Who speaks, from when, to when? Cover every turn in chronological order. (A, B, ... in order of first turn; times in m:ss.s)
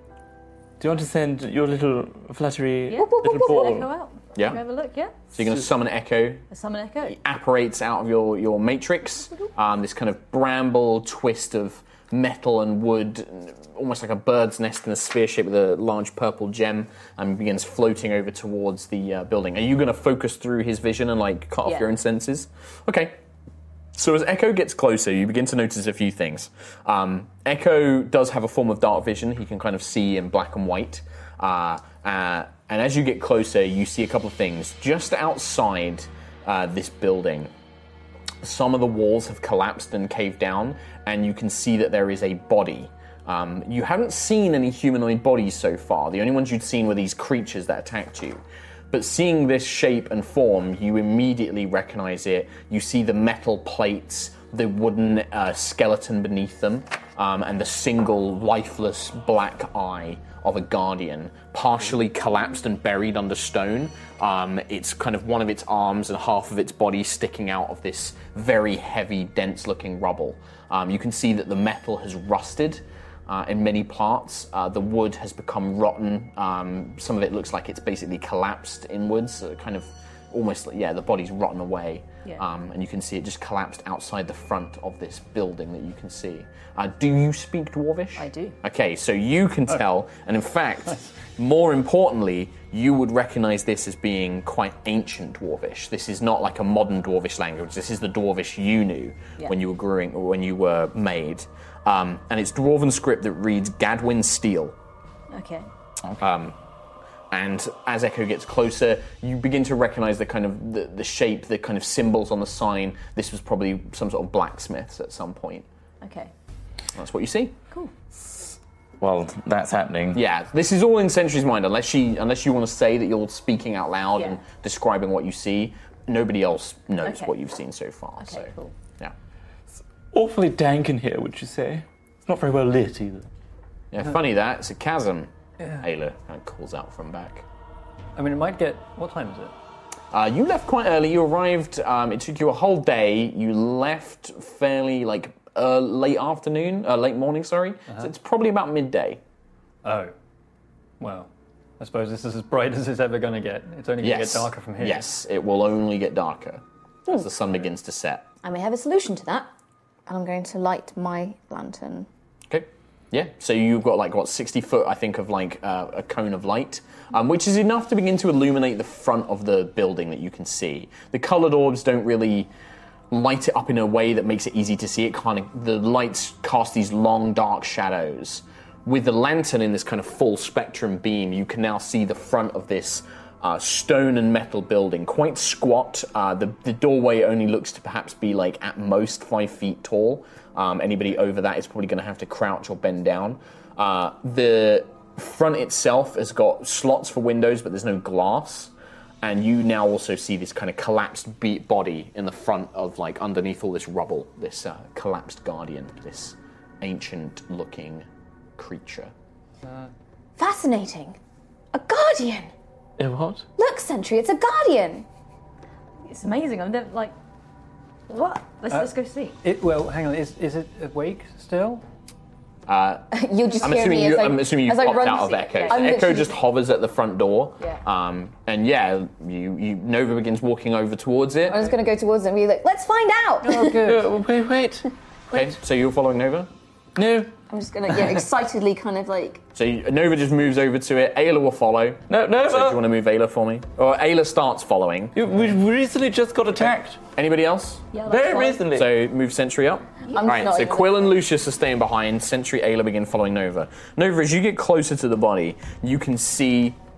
0:00.8-0:03.9 A
0:02.9-0:05.2 B
0:03.0-0:03.6 C
0:05.3-0:06.4 D
0:06.5-0:07.2 B
0:07.1-0:23.2 D
0:23.9-0:37.5 D
0:38.4-1:44.7 D
1:28.2-1:28.5 B
1:45.3-1:45.7 B
1:46.2-1:46.5 D
1:47.3-1:55.6 D
1:56.0-1:56.3 B
1:57.0-1:57.6 D
1:58.2-2:00.2 A
2:00.1-2:09.1 D
2:07.0-2:07.3 B
2:08.2-2:08.7 B
2:10.1-2:13.3 A
2:13.9-2:17.4 D
2:18.2-2:19.5 E
2:20.1-2:29.2 D
2:29.8-2:30.1 E
2:31.0-2:35.0 E
2:34.0-2:38.3 D
2:38.4-2:39.5 C
2:40.1-2:42.1 C
2:42.5-2:52.5 D
2:53.1-3:29.1 D
3:29.6-3:29.9 E
3:30.4-3:31.2 C
3:31.7-3:32.5 C
3:33.0-3:33.4 A
3:33.6-3:35.1 C
3:36.0-3:37.1 B
3:38.1-3:39.4 B
3:39.4-3:41.8 E
3:42.7-3:43.1 D
3:43.1-3:46.3 C
3:43.6-3:51.6 D
3:45.5-3:46.0 B
3:51.4-3:53.9 C
3:53.4-3:54.1 E
3:53.8-3:54.9 A
3:55.3-3:56.5 D
3:57.0-3:57.3 A
3:57.5-3:59.4 C
3:59.5-4:05.2 D
4:02.1-4:02.8 A
4:05.1-4:07.0 A
4:07.1-4:07.9 D
4:07.9-4:08.6 B
4:08.0-4:08.9 A
4:08.6-4:16.8 D
4:10.1-4:11.2 C